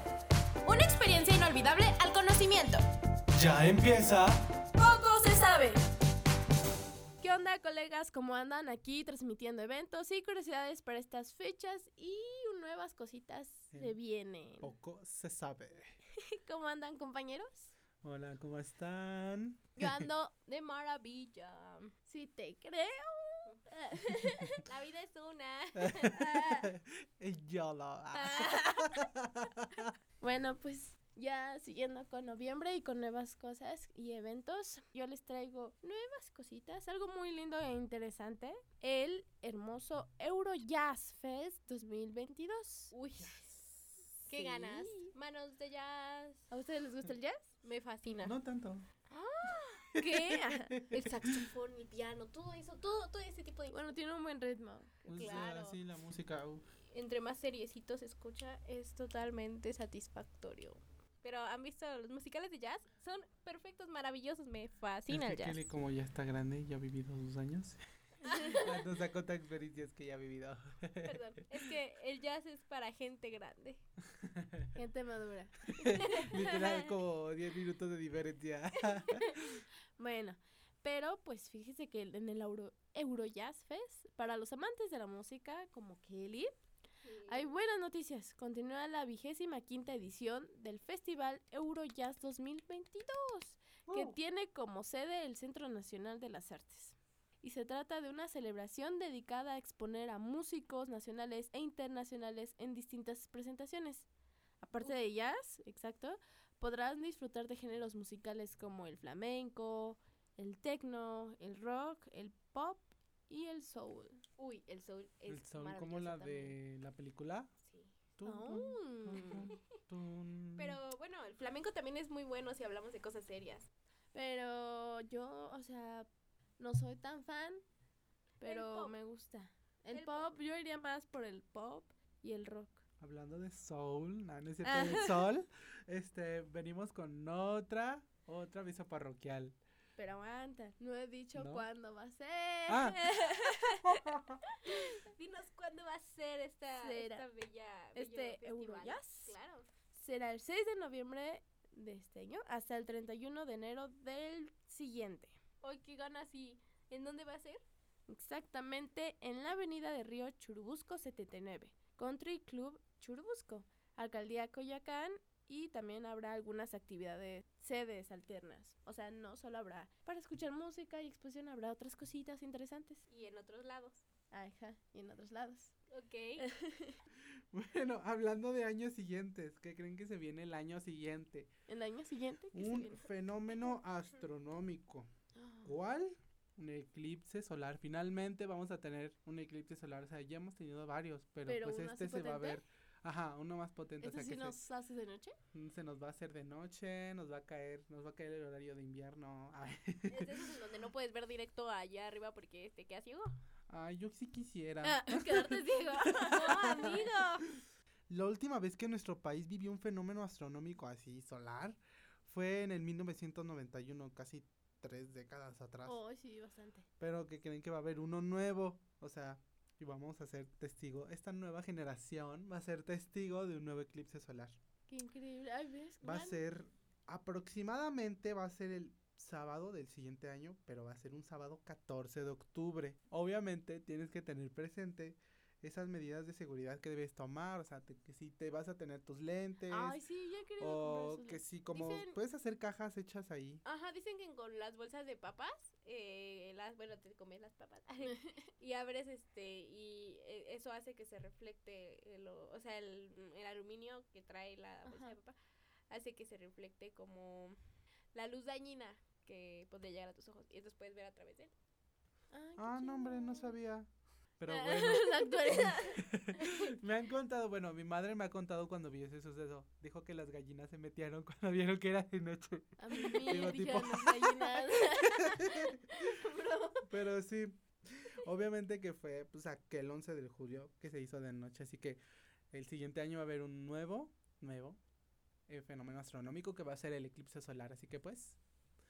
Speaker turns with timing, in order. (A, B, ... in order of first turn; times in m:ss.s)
0:00.7-0:02.8 A
0:00.9-0:02.3 B
0:03.3-0:04.4 C
0:04.8-0:05.8 B
0:07.2-0:14.7 B
0:14.6-0:15.9 C
0:16.2-0:17.7 B
0:18.0-0:20.1 C
0:19.8-0:20.1 B
0:20.2-0:21.9 A
0:22.1-0:24.6 B
0:24.6-0:26.6 A
0:25.8-0:29.9 C
0:28.1-0:29.0 A
0:30.2-0:42.9 B
0:42.9-0:43.5 A
0:44.2-0:46.5 A
0:44.3-0:45.1 B
0:46.5-0:47.5 B
0:47.6-0:48.3 A
0:48.2-0:48.8 C
0:49.1-0:50.9 B
0:50.0-0:51.3 C
0:50.8-0:54.0 A
0:53.7-0:55.4 B
0:55.0-0:56.6 C
0:55.1-0:55.8 A
0:56.9-1:05.7 A
1:05.1-1:07.8 C
1:08.3-1:08.6 B
1:08.3-1:08.6 A
1:08.5-1:11.6 C
1:11.0-1:13.8 A
1:14.1-1:14.7 C
1:14.7-1:16.5 B
1:15.8-1:19.6 C
1:20.0-1:26.5 B
1:27.0-1:27.5 A
1:27.3-1:44.1 B
1:33.8-1:34.2 C
1:44.6-1:54.2 B
1:54.4-1:56.6 A
1:55.3-1:57.5 C
1:57.6-1:57.9 A
1:58.2-2:00.8 C
1:58.2-1:59.5 B
1:59.1-1:59.6 A
2:00.6-2:03.7 A
2:04.1-2:06.1 B
2:06.6-2:07.6 B
2:08.4-2:08.9 A
2:08.4-2:12.8 B
2:09.9-2:10.3 A
2:13.0-2:19.6 C
2:14.7-2:15.0 A
2:20.0-2:23.6 B
2:21.3-2:21.6 C
2:22.7-2:23.0 C
2:23.2-2:23.8 A
2:23.8-2:24.4 C
2:24.7-2:29.7 A
2:26.8-2:27.2 B
2:27.9-2:29.3 B
2:29.9-2:35.4 B
2:35.6-2:37.6 A
2:38.1-2:53.0 B
2:53.1-2:54.0 A
2:54.3-2:55.7 B
2:55.9-2:56.4 A
2:56.4-2:57.0 B
2:57.5-3:01.5 C
3:01.7-3:03.1 B
3:02.5-3:05.1 C
3:05.4-3:05.8 B
3:05.6-3:14.6 C
3:11.5-3:12.6 B
3:14.0-3:15.4 B
3:15.5-3:20.4 C
3:20.1-3:23.4 A
3:23.7-3:27.6 C
3:24.8-3:27.1 B
3:26.2-3:27.4 A
3:28.1-3:36.0 C
3:35.8-3:36.9 B
3:37.0-3:44.6 C
3:44.9-3:46.4 B
3:46.0-4:00.0 C
3:59.7-4:02.2 B
4:00.6-4:03.6 C
4:03.6-4:15.4 A
4:14.8-4:15.2 B
4:15.9-4:17.6 A
4:18.1-4:21.5 A
4:22.3-4:23.6 B
4:22.6-4:36.0 C
4:24.5-4:26.7 B
4:32.8-4:35.7 B
4:33.2-4:33.6 A
4:35.9-4:36.9 A
4:36.9-4:44.8 C
4:45.5-4:48.4 C